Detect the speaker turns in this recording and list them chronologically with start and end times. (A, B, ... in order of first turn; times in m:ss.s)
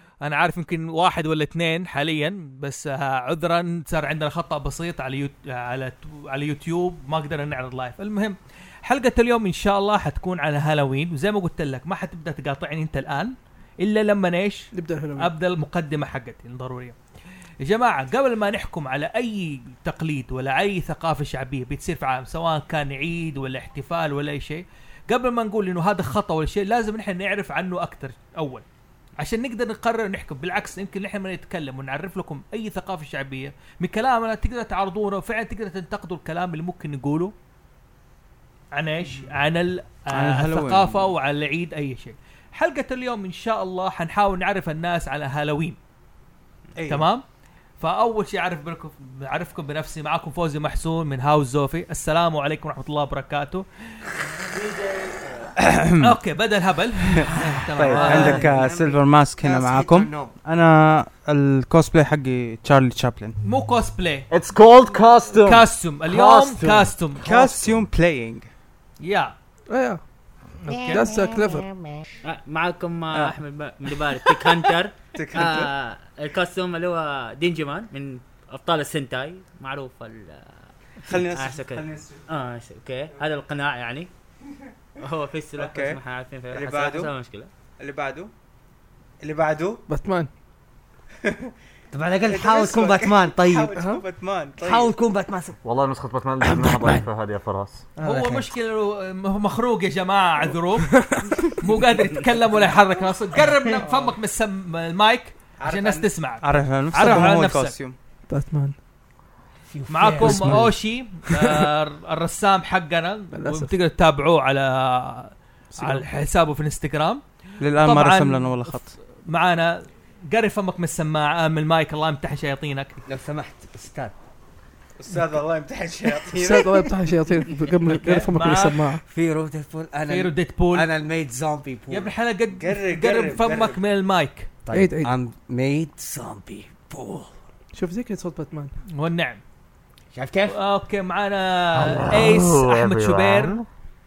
0:00.2-0:17.0 A
0:14.7-0:15.3 B
0:17.6-0:28.6 A
0:29.2-0:37.3 A
0:38.7-0:45.8 A
0:40.1-0:41.1 C
0:46.8-0:47.0 C
0:46.9-0:47.2 A
0:47.8-0:53.6 A
0:54.8-0:55.3 D
0:55.6-0:56.2 C
0:56.0-0:58.6 A
0:57.1-1:03.4 C
0:57.9-1:00.3 D
1:03.4-1:04.3 A
1:04.3-1:07.9 E
1:05.4-1:07.2 A
1:07.2-1:08.4 C
1:09.0-1:09.3 A
1:09.7-1:10.0 B
1:10.6-1:11.1 A
1:10.7-1:11.7 B
1:12.2-1:24.1 F
1:13.9-1:15.7 C
1:21.0-1:22.2 C
1:25.0-1:27.5 F
1:25.6-1:26.0 C
1:26.5-1:27.1 C
1:27.8-1:28.3 C
1:29.2-1:29.8 C
1:29.9-1:30.3 B
1:31.2-1:31.5 C
1:31.9-1:33.8 D
1:32.2-1:34.9 C
1:33.7-1:34.0 B
1:34.6-1:35.6 D
1:35.6-1:37.8 E
1:36.4-1:37.0 D
1:38.0-1:40.9 A
1:38.1-1:38.5 D
1:40.9-1:41.6 B
1:41.5-1:47.8 A
1:43.7-1:44.0 C
1:45.6-1:48.0 C
1:48.3-1:48.8 B
1:49.7-1:50.8 D
1:49.9-1:57.2 A
1:50.2-1:50.6 B
1:51.2-1:51.7 B
1:53.3-1:53.7 B
1:55.8-1:56.1 B
1:57.6-1:58.9 C
1:57.8-2:03.0 A
2:03.1-2:04.2 D
2:05.0-2:07.0 C
2:06.2-2:09.0 B
2:07.9-2:08.9 A
2:09.1-2:12.1 D
2:10.1-2:10.9 A
2:11.9-2:14.5 A
2:12.6-2:13.8 C
2:14.7-2:17.3 D
2:14.7-2:15.1 B
2:17.7-2:18.7 B
2:18.9-2:19.4 A
2:20.1-2:20.6 D
2:20.5-2:23.6 A
2:21.7-2:23.7 E